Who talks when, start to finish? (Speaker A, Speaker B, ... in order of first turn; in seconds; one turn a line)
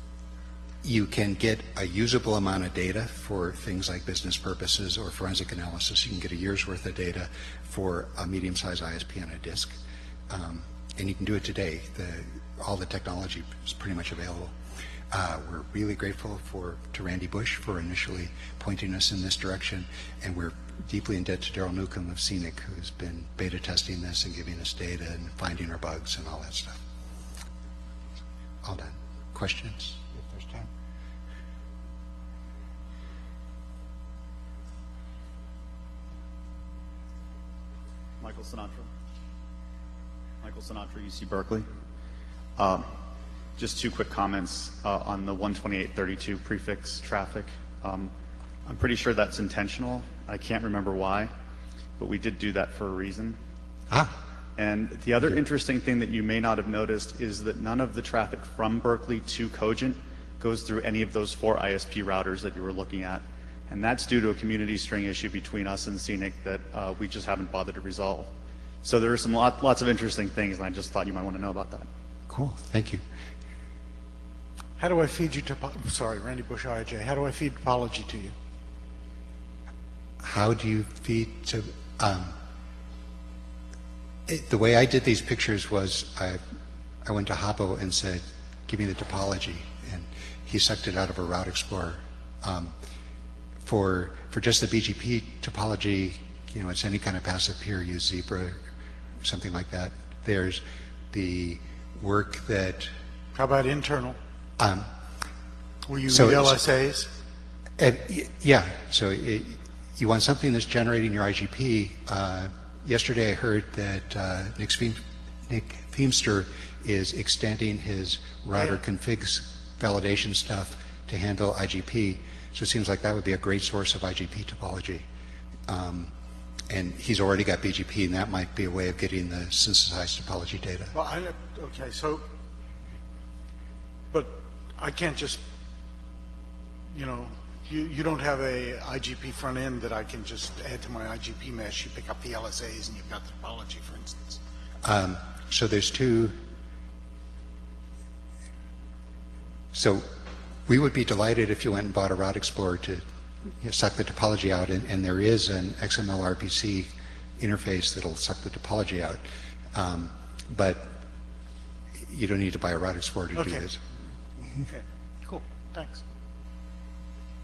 Speaker A: 0.8-9.8
Speaker A: 10.3-14.5
Speaker A: 15.1-26.8
Speaker A: 28.6-30.7
Speaker B: 38.2-38.9
Speaker B: 40.4-41.6
Speaker B: 42.6-42.9
Speaker B: 43.6-48.1
Speaker B: 48.6-51.3
Speaker B: 52.0-53.4
Speaker B: 54.6-68.3
Speaker B: 68.8-71.9
Speaker A: 72.3-73.0
Speaker C: 74.8-78.3
Speaker A: 80.2-82.3
Speaker A: 84.3-86.4
Speaker A: 87.0-92.7
Speaker A: 93.7-98.6
Speaker A: 99.2-102.9
Speaker C: 103.3-104.2
Speaker A: 104.6-104.9
Speaker C: 105.8-107.1
Speaker A: 106.1-106.6
Speaker A: 107.8-125.0
Speaker A: 125.7-126.1
Speaker A: 126.7-130.9
Speaker C: 130.9-132.2
Speaker C: 134.1-135.4
Speaker C: 136.9-144.4
Speaker A: 144.8-146.3
Speaker A: 149.7-150.1
Speaker A: 150.7-153.0
Speaker A: 153.6-161.0
Speaker A: 162.1-163.8
Speaker C: 163.3-163.6
Speaker C: 164.7-166.0